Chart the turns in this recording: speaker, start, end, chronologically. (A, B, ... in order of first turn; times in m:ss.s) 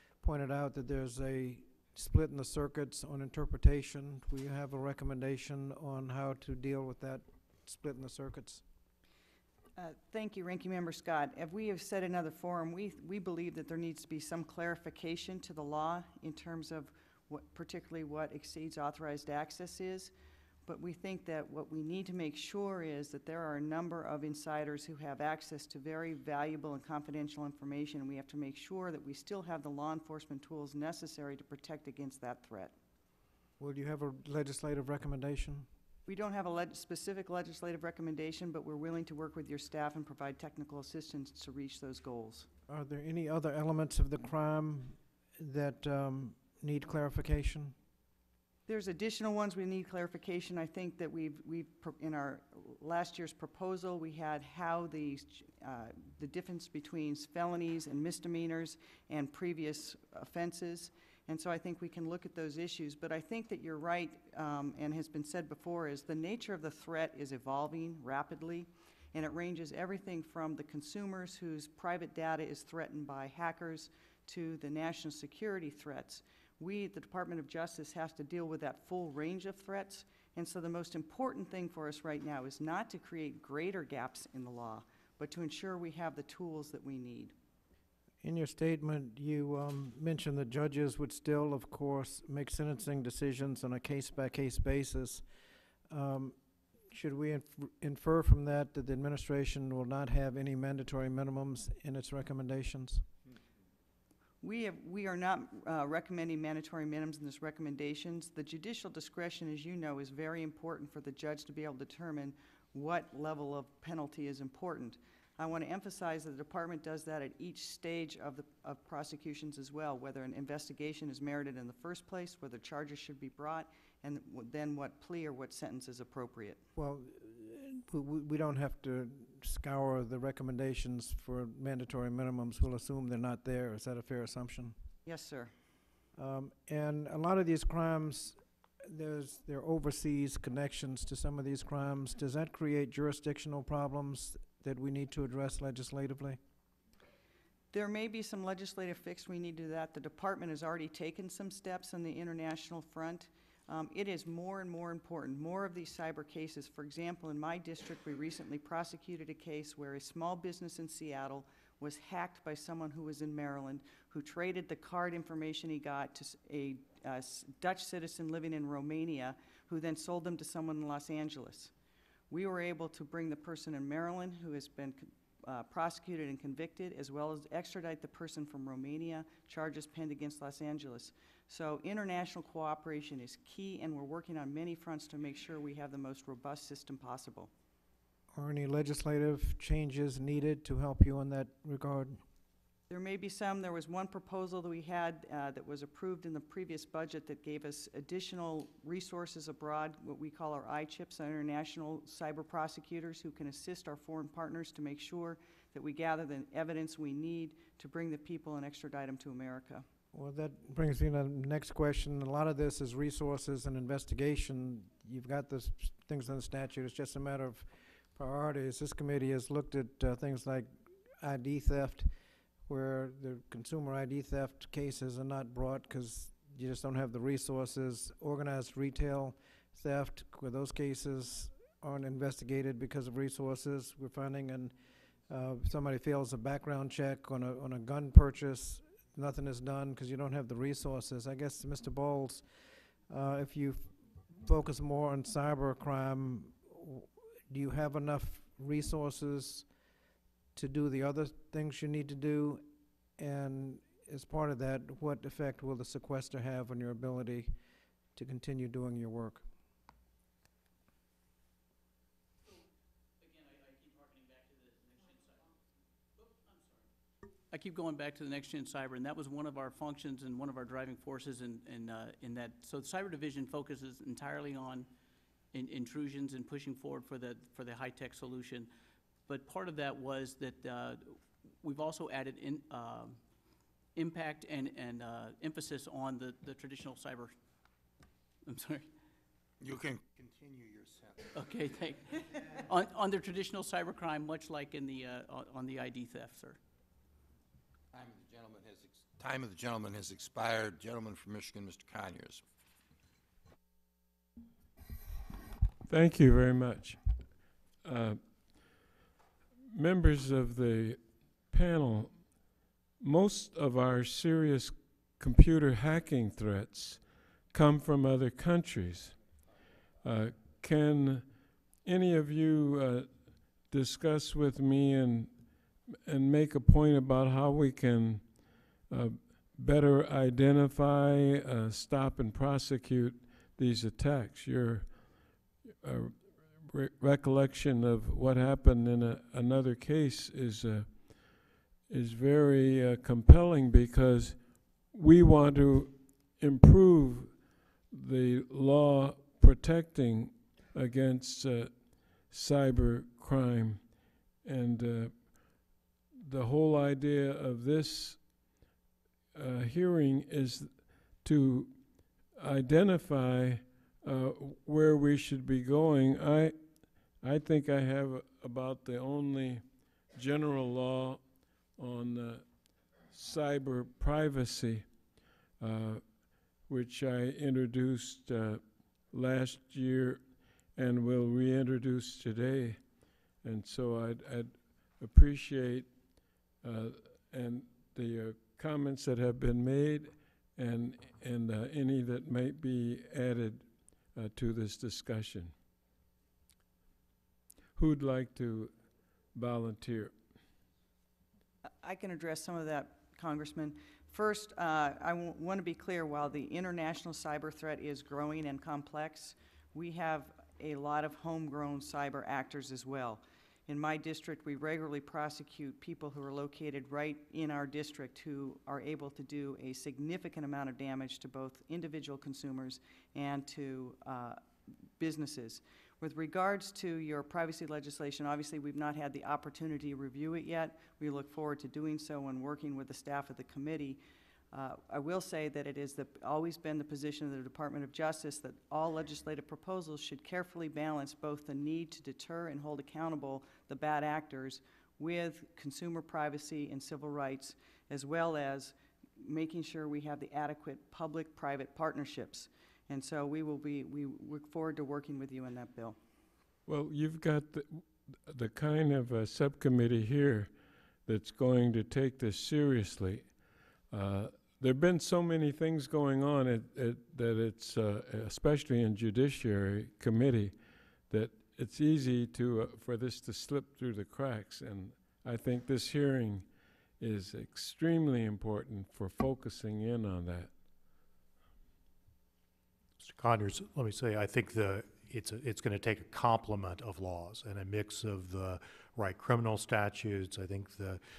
0:00.2-0:08.6 A
0:09.8-0:20.1 B
0:20.6-0:32.7 B
0:33.6-0:35.7 A
0:36.1-0:42.5 B
0:42.7-0:47.7 A
0:48.7-1:27.3 B
1:28.2-1:35.2 A
1:35.9-1:36.4 A
1:36.9-1:43.0 A
1:44.4-2:06.6 B
2:06.8-2:14.8 A
2:15.0-2:15.5 B
2:16.2-2:26.4 A
2:27.7-2:51.7 B
2:52.3-3:07.5 B
3:08.3-3:12.2 A
3:12.9-3:29.8 B
3:30.1-3:42.1 A
3:42.6-3:54.7 A
3:55.3-4:02.5 A
4:03.1-4:09.7 A
4:10.5-4:12.6 A
4:13.2-4:17.5 A
4:18.1-4:19.4 A
4:23.2-4:25.4 C
4:26.2-4:26.8 C
4:27.5-4:34.9 C
4:35.5-4:38.7 C
4:39.3-4:43.2 C
4:44.0-4:47.3 C
4:48.4-4:48.9 C
4:49.6-4:51.4 D
4:51.3-4:56.6 C
4:57.9-5:02.4 D
5:05.8-5:07.0 E
5:07.8-5:08.8 E
5:09.7-5:19.3 E
5:20.0-5:58.4 E
5:59.3-6:15.0 E
6:15.6-6:22.9 E
6:23.4-6:35.5 E
6:37.7-6:38.8 E
6:39.3-6:40.2 E
6:41.8-7:04.4 B
7:05.0-7:14.0 B
7:14.5-7:36.0 B
7:36.6-7:40.5 E
7:41.0-7:43.3 E
7:43.9-8:00.5 E
8:03.0-8:11.0 F